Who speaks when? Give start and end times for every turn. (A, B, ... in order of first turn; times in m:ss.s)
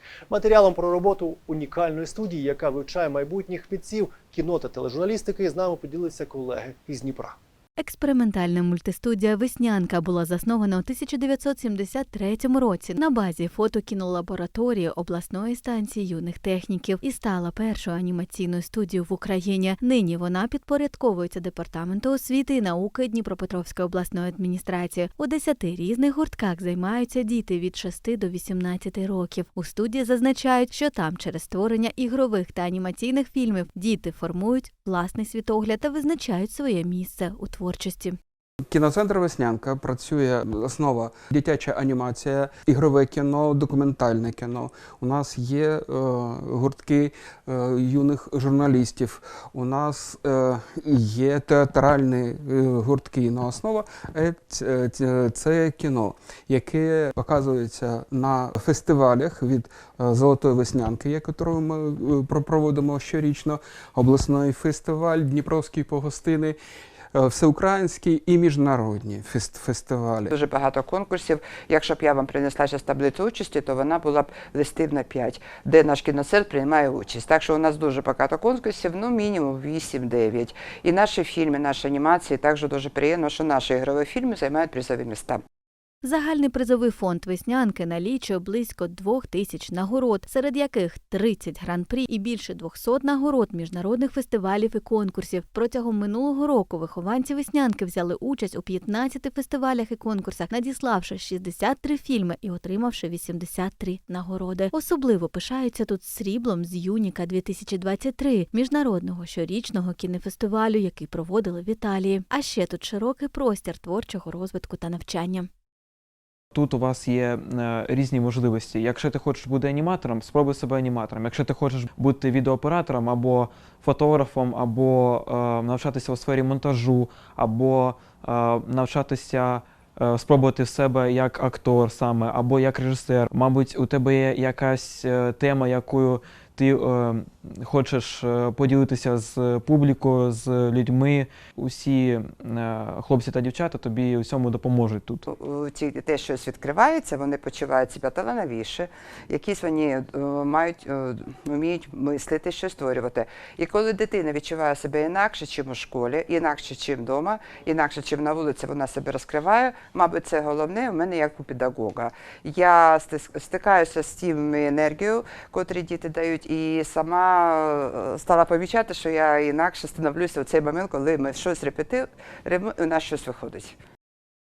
0:00.3-0:07.4 A
0:07.8-0:38.2 B
0:38.7-1:06.6 C
1:07.1-1:10.3 C
1:10.3-1:25.4 D
1:26.0-1:55.5 B
1:56.5-2:25.2 E
2:25.3-2:53.7 D